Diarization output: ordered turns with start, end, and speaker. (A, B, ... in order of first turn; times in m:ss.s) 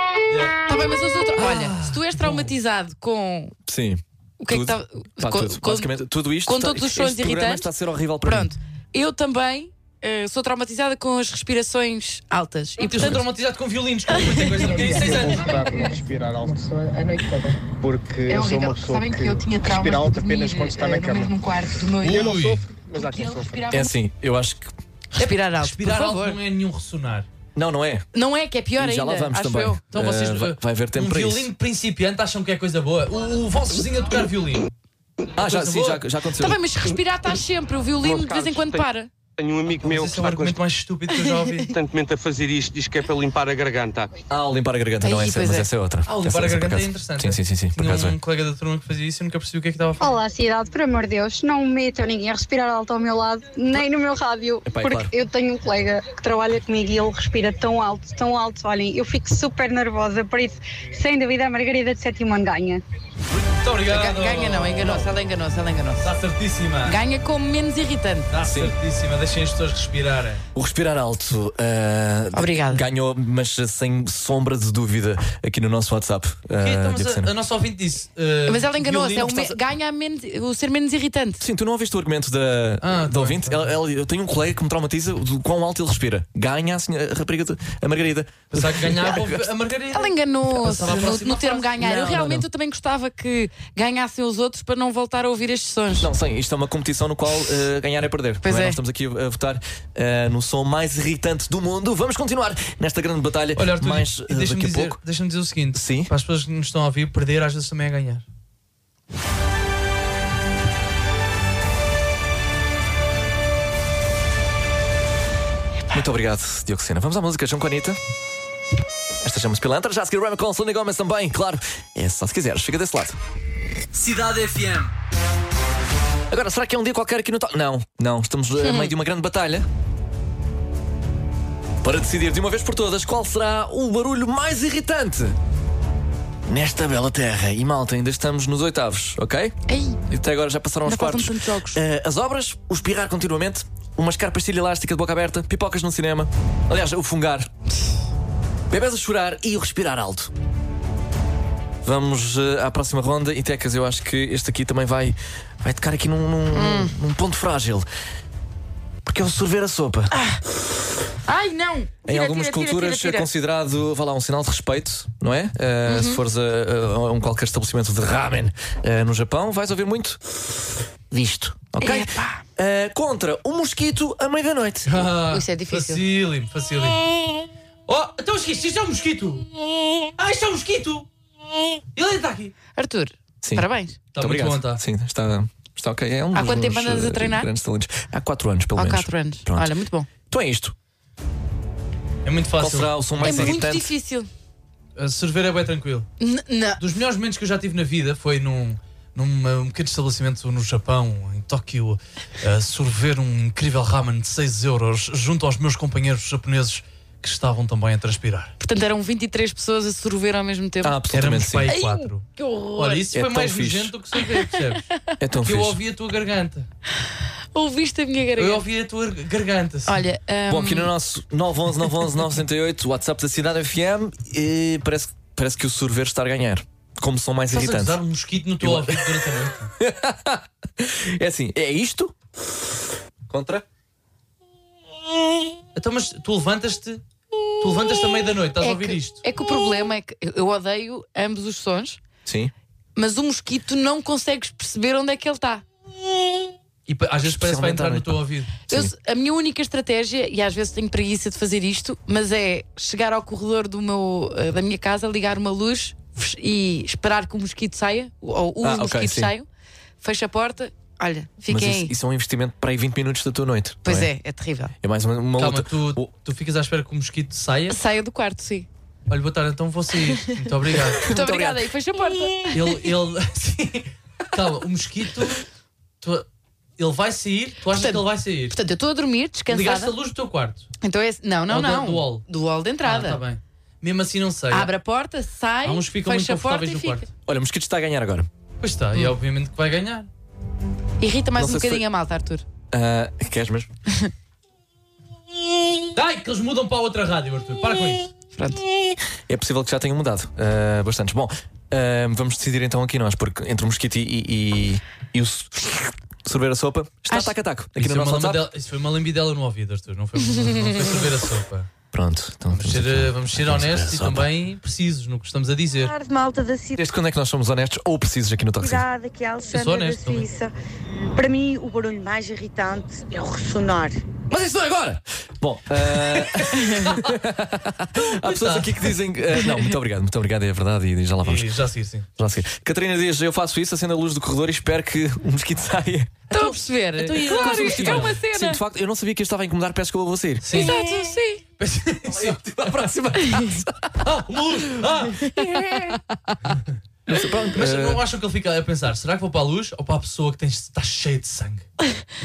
0:00.3-0:00.6 A
0:00.7-0:03.5 B
0:01.4-0:02.5 A
0:03.7-0:08.5 C
0:04.4-0:05.9 B
0:06.5-0:07.7 B
0:08.2-0:13.2 B
0:12.8-0:15.7 A
0:14.3-0:15.9 B
0:14.4-0:17.6 D
0:18.3-0:23.9 B
0:22.0-0:22.6 A
0:23.7-0:24.7 C
0:25.2-0:26.4 B
0:25.2-0:27.3 A
0:27.6-0:28.1 C
0:28.1-0:29.8 B
0:28.8-0:31.5 C
0:29.9-0:34.7 A
0:35.4-0:36.6 C
0:35.4-0:36.0 A
0:36.4-0:39.1 B
0:38.0-0:40.6 E
0:39.8-0:41.7 A
0:41.1-0:41.6 B
0:41.7-0:44.1 E
0:44.3-0:48.2 C
0:45.0-0:45.7 B
0:46.1-0:50.2 A
0:50.0-1:02.8 F
0:54.6-0:55.1 C
1:03.3-1:05.1 A
1:03.9-1:06.1 B
1:06.0-1:07.0 A
1:06.8-1:08.3 B
1:08.3-1:10.4 A
1:08.4-1:08.7 C
1:10.6-1:17.3 C
1:12.3-1:12.8 B
1:16.6-1:19.5 A
1:18.5-1:21.4 B
1:21.4-1:29.5 C
1:22.8-1:23.8 A
1:28.5-1:32.4 A
1:29.9-1:36.1 B
1:36.0-1:45.0 C
1:38.4-1:38.8 B
1:43.6-1:48.2 A
1:45.7-1:46.1 C
1:55.9-1:58.0 C
1:59.2-2:03.2 C
2:04.0-2:04.8 A
2:06.3-2:09.7 C
2:08.6-2:08.9 B
2:11.8-2:15.4 C
2:16.5-2:19.6 C
2:19.7-2:20.0 B
2:20.1-2:27.5 C
2:20.8-2:21.8 B
2:28.7-2:30.3 C
2:31.8-2:37.9 C
2:36.5-2:36.9 B
2:39.0-2:40.1 C
2:40.1-2:40.4 B
2:41.3-2:43.3 B
2:42.1-2:50.2 C
2:45.9-2:46.2 B
2:51.1-2:55.0 C
2:51.8-2:52.4 B
2:54.9-2:57.0 A
2:55.3-2:56.0 B
2:57.9-2:59.5 A
3:00.2-3:01.1 A
3:02.0-3:02.5 A
3:02.8-3:04.0 B
3:04.1-3:04.8 A
3:04.2-3:09.7 C
3:06.3-3:07.5 B
3:08.8-3:10.1 B
3:10.3-3:10.7 C
3:12.2-3:13.6 A
3:12.6-3:13.9 C
3:13.2-3:14.3 B
3:15.0-3:16.1 A
3:16.2-3:16.8 B
3:16.8-3:28.5 A
3:28.6-3:31.0 B
3:30.8-3:31.7 C
3:31.1-3:34.9 A
3:31.7-3:33.0 B
3:33.1-3:33.9 C
3:35.2-3:35.8 C
3:35.4-3:36.7 A
3:37.5-3:38.6 B
3:38.4-3:40.0 A
3:39.9-3:40.9 B
3:40.5-3:48.0 C
3:47.5-3:49.7 A
3:48.6-3:49.3 C
3:49.8-3:52.2 C
3:53.3-3:53.6 C
3:55.8-3:57.0 A
3:57.6-3:59.2 A
3:58.6-4:02.0 B
4:02.2-4:02.5 C
4:03.0-4:05.6 B
4:06.9-4:08.6 A
4:07.2-4:08.9 C
4:08.7-4:19.5 B
4:18.6-4:19.3 C
4:20.0-4:21.9 B
4:21.5-4:24.1 C
4:23.8-4:24.7 B
4:24.8-4:26.1 C
4:25.4-4:27.8 A
4:27.7-4:28.7 B
4:29.1-4:31.0 A
4:30.9-4:31.6 C
4:31.1-4:32.6 B
4:32.5-4:35.4 A
4:36.8-4:38.6 A
4:37.7-4:39.9 B
4:39.5-4:40.7 A
4:40.8-4:43.2 B
4:41.5-4:42.2 A
4:42.8-4:44.7 A
4:44.5-4:47.1 B
4:45.6-4:47.1 A
4:47.3-4:48.3 C
4:48.6-4:50.1 A
4:51.0-4:52.4 B
4:51.4-4:51.8 C
4:52.7-4:53.7 C
4:56.0-4:58.1 A
4:58.3-4:58.6 B
4:59.3-5:08.4 C
5:07.1-5:07.3 B
5:07.8-5:11.7 A
5:11.9-5:14.3 C
5:12.5-5:15.9 A
5:15.8-5:16.8 G
5:16.8-5:18.9 C
5:18.6-5:20.5 G
5:19.5-5:20.3 A
5:21.2-5:24.0 G
5:24.3-5:31.5 C
5:28.2-5:28.9 A
5:31.2-5:32.1 A
5:32.2-5:36.2 C
5:36.3-5:38.6 B
5:36.3-5:38.2 A
5:37.2-5:40.7 C
5:40.4-5:40.8 A
5:40.5-5:41.4 B
5:41.6-5:42.4 A
5:42.1-5:44.0 C
5:44.0-5:45.5 A
5:45.3-5:45.8 B
5:47.1-5:48.0 C
5:47.6-5:51.6 A